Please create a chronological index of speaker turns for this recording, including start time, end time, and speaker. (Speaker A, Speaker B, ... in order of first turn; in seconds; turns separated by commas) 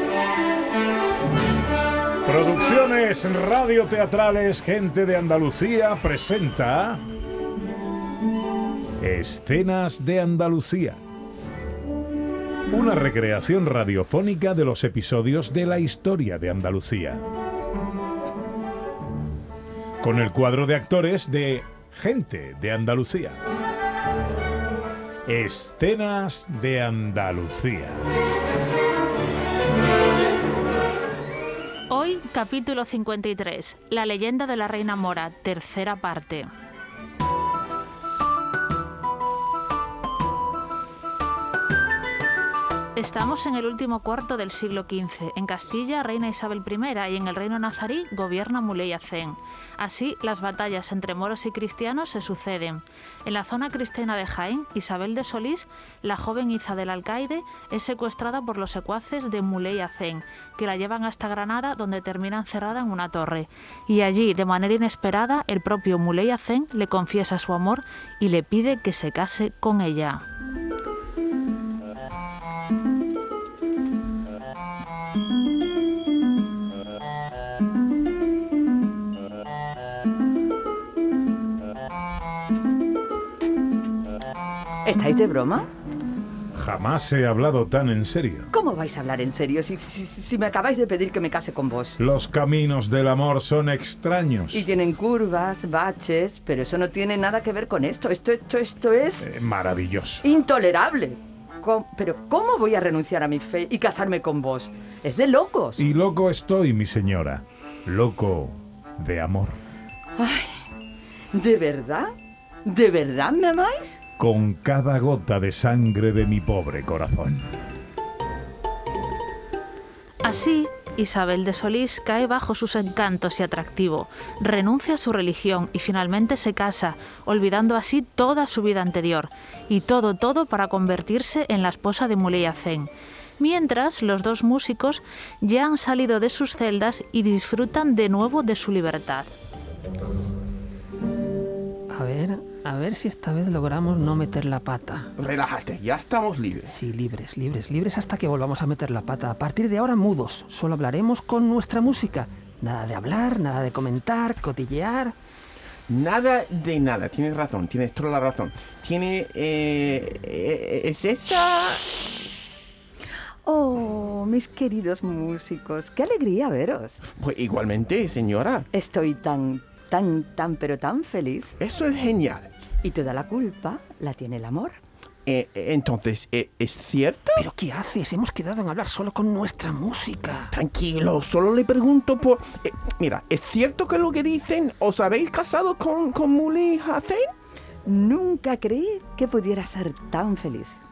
Speaker A: 2.3-7.0, Speaker A: 9.0-11.0, Speaker A: 12.7-17.2, Speaker A: 20.0-23.4, Speaker A: 25.3-28.0, Speaker B: 31.9-36.5, Speaker B: 43.0-70.2, Speaker C: 84.8-85.7, Speaker A: 86.6-88.5, Speaker C: 88.5-92.0, Speaker A: 92.0-94.7, Speaker C: 94.5-99.3, Speaker A: 99.2-100.2, Speaker C: 100.2-105.8, Speaker A: 105.8-109.6, Speaker C: 110.2-110.6, Speaker C: 111.3-112.1, Speaker C: 112.7-114.0, Speaker A: 114.2-117.4, Speaker B: 120.2-139.3, Speaker D: 141.9-145.1, Speaker E: 145.2-146.8, Speaker D: 146.8-155.2, Speaker E: 155.9-162.0, Speaker C: 163.4-167.0, Speaker E: 167.2-168.7, Speaker C: 168.7-171.6, Speaker E: 171.6-172.5, Speaker C: 172.8-174.8, Speaker E: 175.3-177.5, Speaker D: 177.4-180.5, Speaker E: 180.5-187.3, Speaker C: 187.9-190.8